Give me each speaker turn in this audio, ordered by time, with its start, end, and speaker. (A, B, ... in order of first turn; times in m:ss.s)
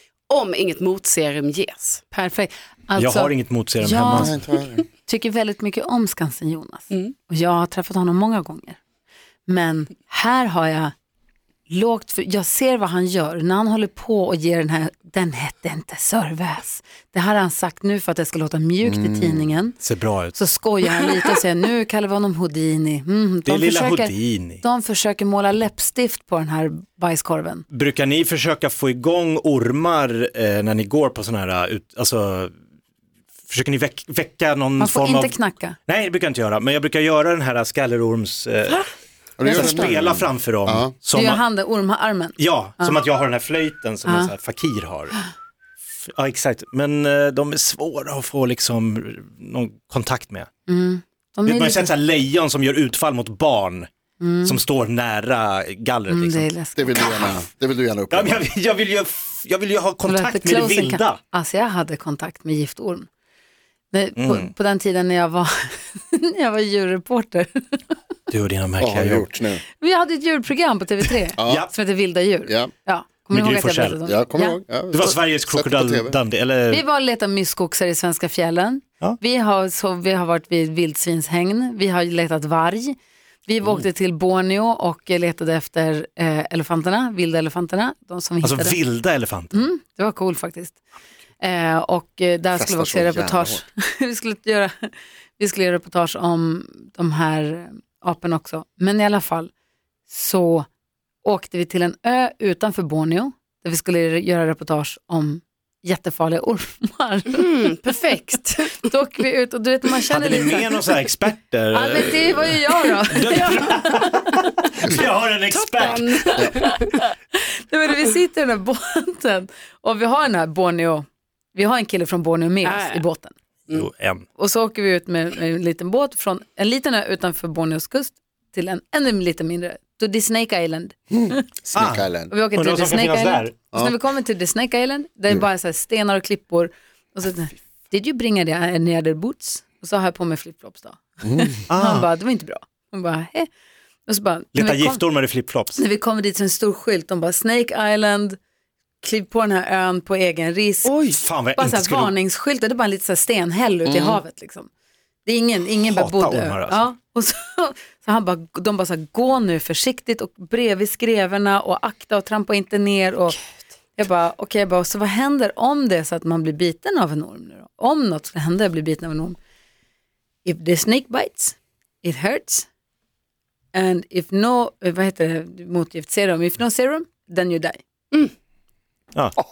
0:00.3-0:02.0 A
0:02.1-0:04.3 B
0:03.0-0:04.3 C
0:04.1-0:04.8 D
0:05.0-0:08.8 B
0:09.5-0:10.9 B
0:11.7-0:19.8 B
0:18.8-0:19.5 D
0:19.8-0:20.4 C
0:20.4-0:27.7 B
0:23.5-0:24.6 C
0:27.7-0:32.5 C
0:33.5-0:38.8 C
0:34.8-0:35.8 B
0:39.4-0:40.9 D
0:39.4-0:41.4 C
0:39.5-0:39.9 B
0:41.1-0:43.0 B
0:42.4-0:45.2 C
0:44.0-0:44.3 B
0:46.1-0:50.5 C
0:50.7-0:51.9 B
0:51.5-0:53.9 C
0:54.2-0:54.6 B
0:54.4-0:56.5 C
0:56.1-0:57.2 B
0:56.8-0:58.4 D
0:58.1-1:01.2 C
1:00.1-1:03.1 B
1:03.9-1:07.9 B
1:04.2-1:04.5 C
1:08.3-1:09.3 C
1:08.8-1:09.6 D
1:09.8-1:14.6 B
1:11.4-1:11.7 D
1:11.4-1:11.7 C
1:12.5-1:12.7 D
1:13.3-1:14.0 C
1:14.0-1:16.2 D
1:14.9-1:16.8 C
1:16.7-1:28.8 B
1:28.4-1:29.6 C
1:29.5-1:30.8 B
1:31.4-1:39.5 B
1:32.5-1:33.6 D
1:40.1-1:40.7 B
1:41.2-1:47.5 B
1:47.4-1:48.9 A
1:48.8-1:50.8 B
1:50.1-1:56.5 C
1:51.7-1:54.1 B
1:53.3-1:53.9 A
1:55.5-1:57.0 A
1:56.9-2:03.3 B
2:02.6-2:03.0 A
2:03.7-2:04.2 C
2:04.4-2:11.5 B
2:11.1-2:12.3 D
2:11.7-2:13.6 C
2:12.3-2:23.5 B
2:21.2-2:21.6 D
2:21.7-2:22.1 C
2:24.1-2:25.0 B
2:24.5-2:25.8 C
2:25.8-2:28.4 B
2:29.0-2:34.7 B
2:30.9-2:31.2 A
2:31.0-2:32.1 C
2:33.9-2:34.2 D
2:35.2-2:43.4 B
2:35.8-2:36.8 C
2:44.0-2:49.4 B
2:50.4-2:52.7 B
2:53.7-2:57.8 B